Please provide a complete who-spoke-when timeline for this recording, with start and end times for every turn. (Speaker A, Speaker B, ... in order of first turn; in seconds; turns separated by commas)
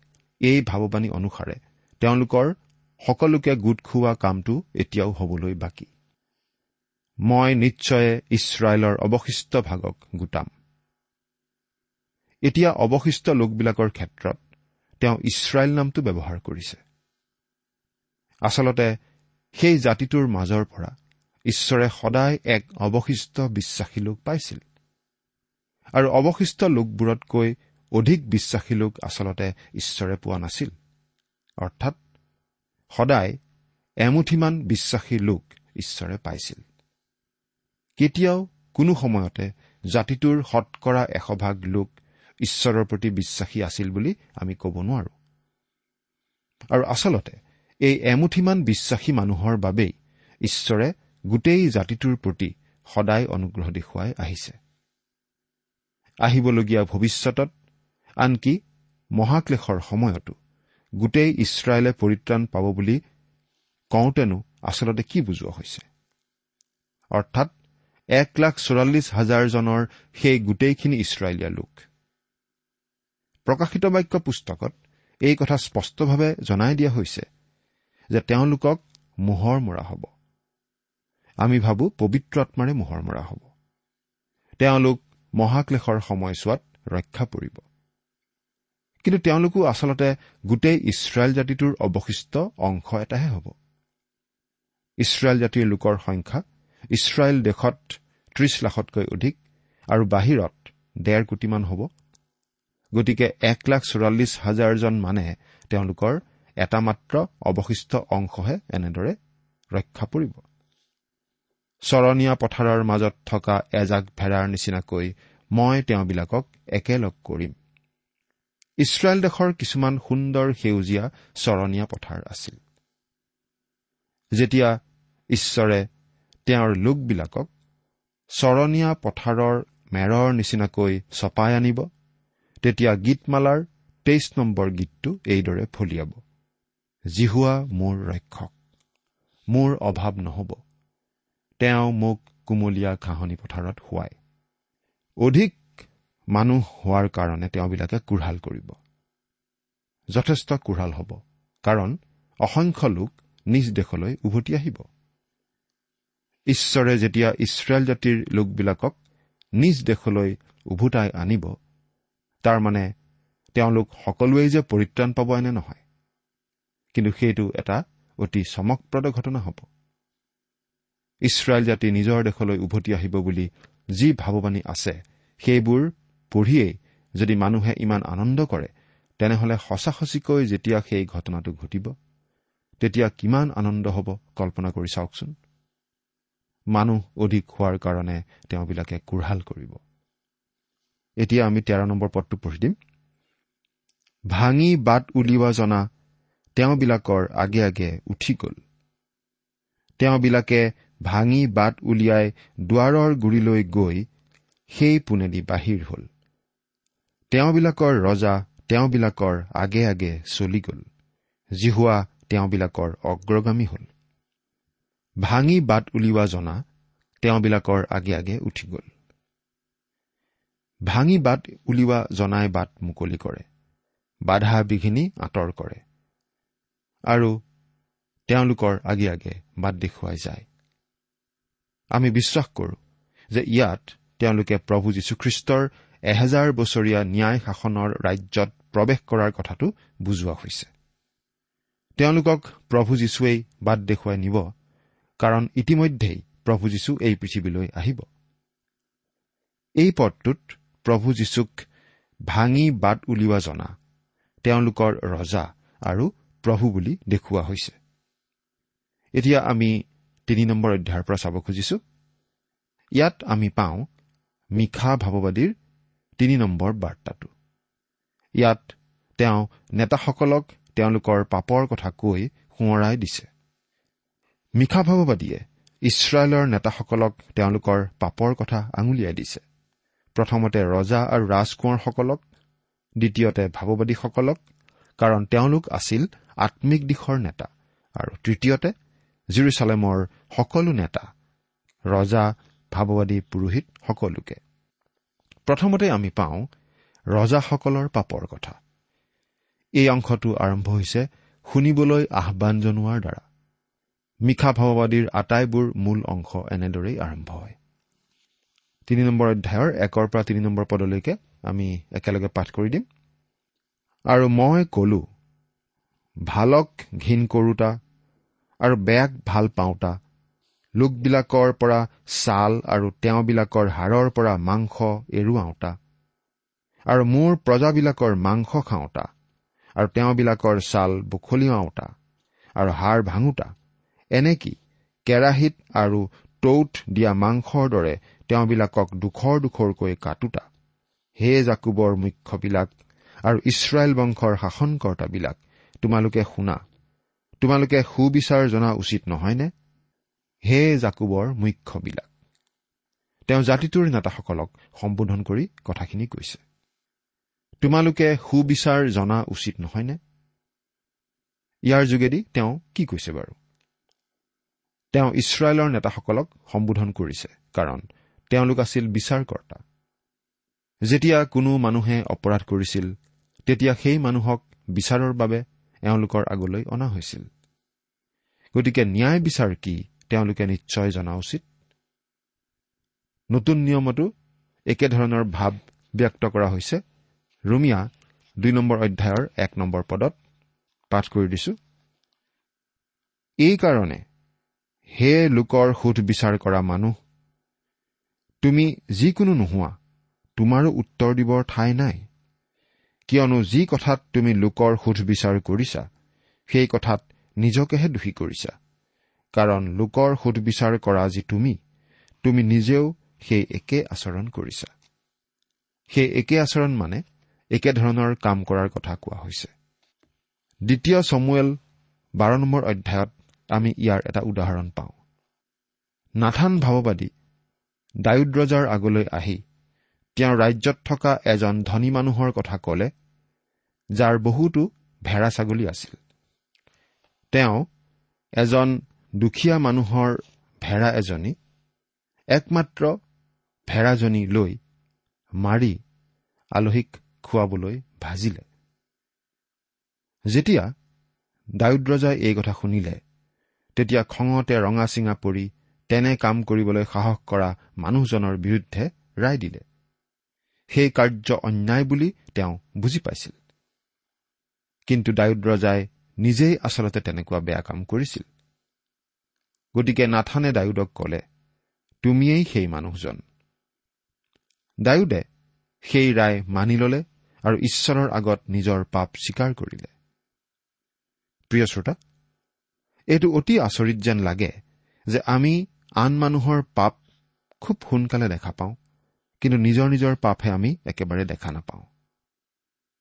Speaker A: 0.5-2.5, Speaker A: 3.1-5.9, Speaker A: 7.3-10.5, Speaker A: 12.5-14.4, Speaker A: 15.0-16.8, Speaker A: 18.5-18.9, Speaker A: 19.6-20.9, Speaker A: 21.5-24.6, Speaker A: 26.0-30.7, Speaker A: 31.6-32.0, Speaker A: 33.0-33.4, Speaker A: 34.0-36.6, Speaker A: 38.0-41.9, Speaker A: 42.4-45.1, Speaker A: 46.7-49.9, Speaker A: 50.5-54.6, Speaker A: 56.2-57.5, Speaker A: 58.2-58.6, Speaker A: 59.2-60.4, Speaker A: 61.0-63.0, Speaker A: 63.9-65.8, Speaker A: 67.2-67.5, Speaker A: 68.2-71.8, Speaker A: 73.5-74.8, Speaker A: 75.3-77.2, Speaker A: 78.1-80.1, Speaker A: 81.4-83.5, Speaker A: 84.6-87.6, Speaker A: 89.0-93.5, Speaker A: 95.0-99.4, Speaker A: 99.9-101.9, Speaker A: 102.9-109.2, Speaker A: 109.8-110.4, Speaker A: 111.9-117.5, Speaker A: 118.8-122.6, Speaker A: 124.4-124.8, Speaker A: 125.3-125.8, Speaker A: 126.5-127.5, Speaker A: 128.4-131.9, Speaker A: 132.6-136.2, Speaker A: 137.1-138.5, Speaker A: 139.5-140.6, Speaker A: 141.6-144.2, Speaker A: 145.2-145.6, Speaker A: 146.3-148.8, Speaker A: 150.1-154.8, Speaker A: 156.5-158.9, Speaker A: 159.6-161.5, Speaker A: 162.4-162.8, Speaker A: 163.6-165.8, Speaker A: 166.9-169.7, Speaker A: 171.3-181.9, Speaker A: 182.8-185.3, Speaker A: 186.7-189.8, Speaker A: 191.2-192.8, Speaker A: 194.3-195.8, Speaker A: 196.6-198.6, Speaker A: 200.0-204.1, Speaker A: 204.7-206.1, Speaker A: 207.3-210.8, Speaker A: 211.6-213.9, Speaker A: 215.2-216.6, Speaker A: 217.2-218.9, Speaker A: 220.9-223.4, Speaker A: 224.3-225.8, Speaker A: 228.3-230.5, Speaker A: 231.9-232.8, Speaker A: 233.3-240.7, Speaker A: 242.0-244.5, Speaker A: 245.2-248.0, Speaker A: 249.8-251.6, Speaker A: 252.3-253.7, Speaker A: 254.4-257.8, Speaker A: 259.2-259.7, Speaker A: 260.3-261.8, Speaker A: 263.0-263.9, Speaker A: 264.6-265.5, Speaker A: 266.2-267.3, Speaker A: 268.4-273.3, Speaker A: 274.6-279.4, Speaker A: 280.2-282.2, Speaker A: 283.0-284.4, Speaker A: 285.0-288.7, Speaker A: 289.3-291.1, Speaker A: 291.9-294.4, Speaker A: 295.5-296.5, Speaker A: 297.1-298.6, Speaker A: 299.8-303.2, Speaker A: 304.3-307.5, Speaker A: 308.9-312.9, Speaker A: 314.1-315.0, Speaker A: 316.3-317.7, Speaker A: 318.6-319.9, Speaker A: 320.8-325.8, Speaker A: 326.9-329.1, Speaker A: 329.8-331.9, Speaker A: 332.6-333.5, Speaker A: 334.1-334.6, Speaker A: 335.1-340.4, Speaker A: 341.2-342.7, Speaker A: 343.3-346.6, Speaker A: 347.4-349.5, Speaker A: 350.5-352.1, Speaker A: 353.3-356.4, Speaker A: 357.6-360.0, Speaker A: 361.7-363.4, Speaker A: 364.9-369.6, Speaker A: 370.9-372.9, Speaker A: 373.5-377.3, Speaker A: 378.6-381.4, Speaker A: 383.3-384.1, Speaker A: 384.7-386.8, Speaker A: 387.5-387.9, Speaker A: 388.4-390.2, Speaker A: 390.9-391.6, Speaker A: 393.4-394.0, Speaker A: 395.0-396.9, Speaker A: 398.4-399.8, Speaker A: 400.4-402.0, Speaker A: 403.1-405.9, Speaker A: 406.5-408.6, Speaker A: 409.4-411.6, Speaker A: 412.2-414.7, Speaker A: 415.9-417.0, Speaker A: 417.5-419.5, Speaker A: 420.7-421.6, Speaker A: 422.2-424.9, Speaker A: 426.2-427.1, Speaker A: 428.1-429.4, Speaker A: 430.2-432.9, Speaker A: 434.0-436.0, Speaker A: 437.3-437.7, Speaker A: 438.4-441.4, Speaker A: 442.3-442.9, Speaker A: 443.7-444.6, Speaker A: 445.4-445.8, Speaker A: 446.6-448.4, Speaker A: 450.3-450.7, Speaker A: 451.6-453.0, Speaker A: 453.8-459.6, Speaker A: 460.7-463.4, Speaker A: 464.9-468.2, Speaker A: 469.8-471.2, Speaker A: 472.0-473.2, Speaker A: 474.9-475.2, Speaker A: 475.9-479.9, Speaker A: 481.5-481.9, Speaker A: 483.1-484.5, Speaker A: 485.1-487.0, Speaker A: 487.6-488.8, Speaker A: 489.4-491.9